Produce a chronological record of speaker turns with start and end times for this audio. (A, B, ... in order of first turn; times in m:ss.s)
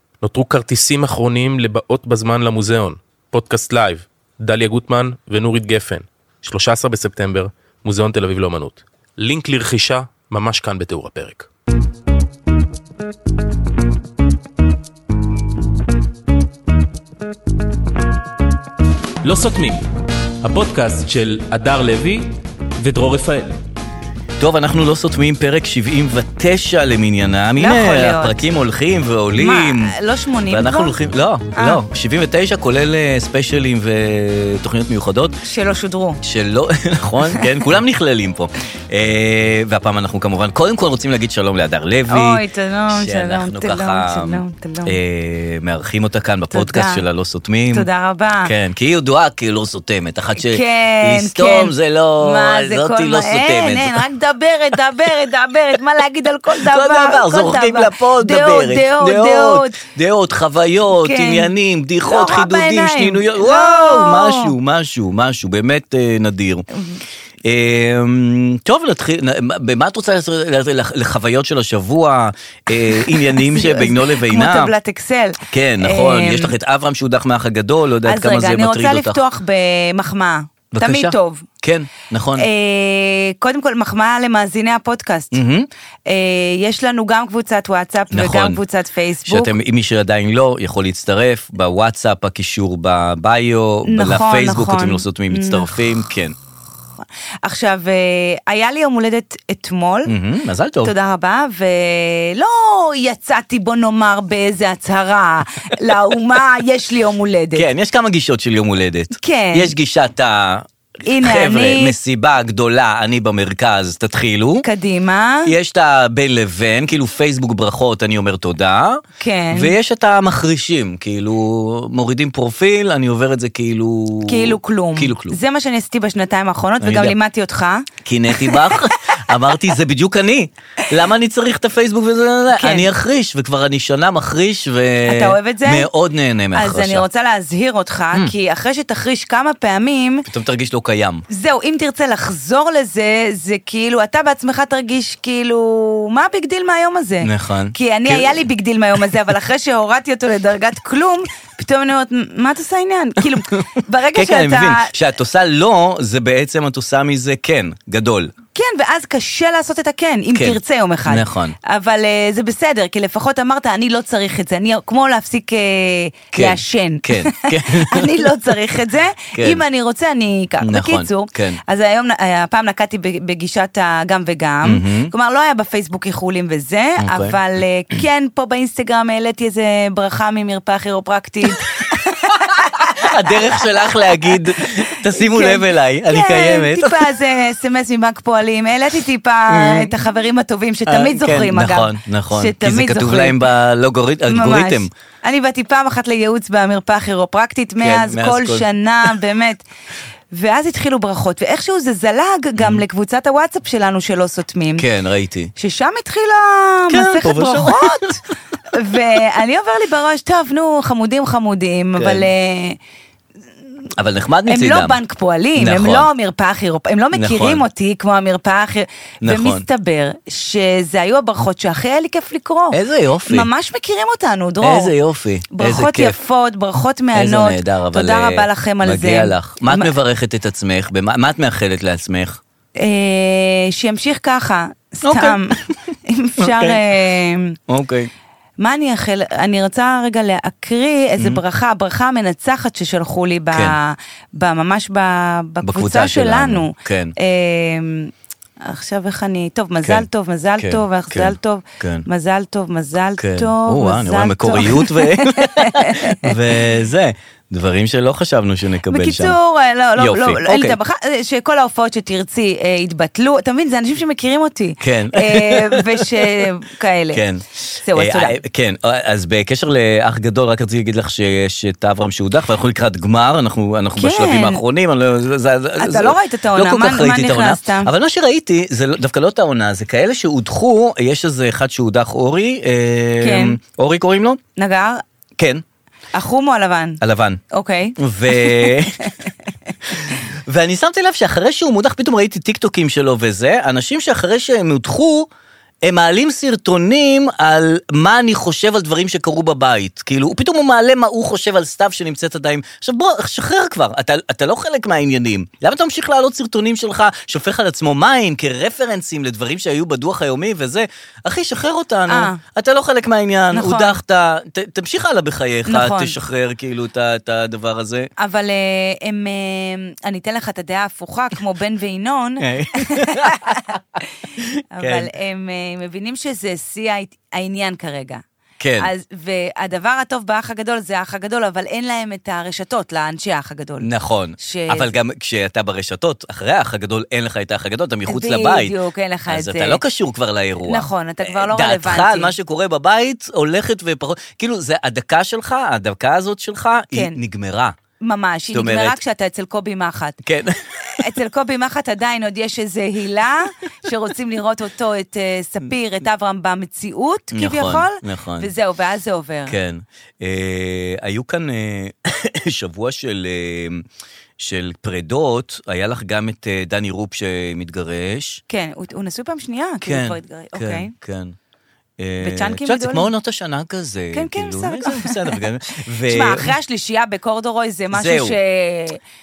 0:00.2-0:11.5 A
0:19.2-0:19.8 A
0:20.4-0:23.6 A
0:24.4-0:29.9 B
0:27.6-0:28.4 C
0:29.3-0:31.0 C
0:30.5-0:35.4 B
0:31.5-0:31.8 C
0:35.4-0:36.2 C
0:36.2-0:47.9 B
0:42.1-0:45.0 C
0:46.5-0:47.0 C
0:47.7-0:48.5 C
0:48.4-0:54.0 B
0:50.4-0:59.8 C
0:56.5-1:06.7 B
1:00.9-1:04.5 C
1:07.4-1:14.7 B
1:12.8-1:16.5 C
1:15.5-1:19.2 B
1:18.0-1:21.4 C
1:20.7-1:22.5 B
1:22.4-1:25.4 C
1:25.3-1:25.7 B
1:26.0-1:29.5 C
1:28.1-1:28.6 B
1:29.2-1:36.3 B
1:33.8-1:35.7 C
1:37.4-1:40.1 C
1:40.1-1:40.9 B
1:40.8-1:47.7 C
1:47.5-1:54.6 B
1:49.2-1:49.7 C
1:51.0-1:52.0 C
1:54.6-1:55.5 C
1:55.4-2:05.4 B
1:59.2-1:59.7 C
2:04.3-2:08.8 C
2:06.8-2:07.1 B
2:08.0-2:17.0 B
2:12.5-2:12.9 C
2:15.0-2:15.9 C
2:16.5-2:20.2 C
2:20.3-2:21.2 B
2:21.3-2:34.9 C
2:27.2-2:28.4 B
2:33.3-2:38.3 B
2:38.5-3:03.6 C
2:40.3-2:41.6 B
2:46.3-2:48.6 B
2:49.3-2:49.6 B
2:50.6-2:51.6 B
2:54.6-2:55.1 B
2:57.0-2:57.4 B
3:02.8-3:07.1 B
3:04.9-3:13.5 C
3:09.5-3:10.0 B
3:10.9-3:14.9 B
3:14.3-3:19.6 C
3:17.8-3:19.2 B
3:20.3-3:24.8 C
3:22.6-3:22.8 B
3:24.8-3:25.5 B
3:25.6-3:28.2 C
3:26.9-3:28.1 B
3:28.7-3:32.8 C
3:32.0-3:32.3 B
3:34.0-3:35.0 B
3:34.4-3:44.9 C
3:35.5-3:36.1 B
3:37.1-3:37.6 B
3:39.2-3:39.6 B
3:42.7-3:43.5 B
3:44.6-3:46.2 B
3:45.5-3:49.9 C
3:47.1-3:52.4 B
3:52.8-3:57.6 C
3:55.0-3:55.8 B
3:56.4-3:56.8 B
3:57.7-3:58.1 B
3:58.6-4:08.1 C
4:05.6-4:07.1 B
4:08.6-4:16.4 C
4:10.6-4:12.0 B
4:13.2-4:19.4 B
4:18.9-4:27.2 C
4:20.0-4:20.8 B
4:24.8-4:26.5 B
4:27.1-4:44.4 B
4:27.8-4:28.4 C
4:34.0-4:34.6 C
4:35.8-4:37.9 C
4:43.2-4:43.6 C
4:44.6-4:45.0 C
4:45.4-4:45.6 B
4:46.1-4:49.3 C
4:47.0-4:47.4 B
4:48.0-4:49.1 B
4:49.9-4:55.3 B
4:55.8-5:18.1 B
5:12.1-5:12.4 C
5:13.5-5:14.0 C
5:15.6-5:16.2 C
5:18.2-5:23.8 C
5:22.4-5:25.1 B
5:24.7-5:28.2 C
5:28.6-5:28.9 B
5:28.8-5:34.9 C
5:33.8-5:38.8 B
5:38.0-5:39.8 C
5:39.3-5:47.8 B
5:40.6-5:42.3 C
5:48.0-5:50.2 C
5:48.5-5:49.0 B
5:50.2-5:51.1 B
5:50.9-5:59.6 C
5:57.3-5:58.5 B
5:59.5-6:03.8 B
6:04.4-6:08.4 B
6:08.5-6:10.9 C
6:09.8-6:11.4 B
6:12.0-6:16.5 B
6:12.2-6:13.1 C
6:14.1-6:15.4 C
6:16.0-6:19.0 C
6:17.9-6:18.4 B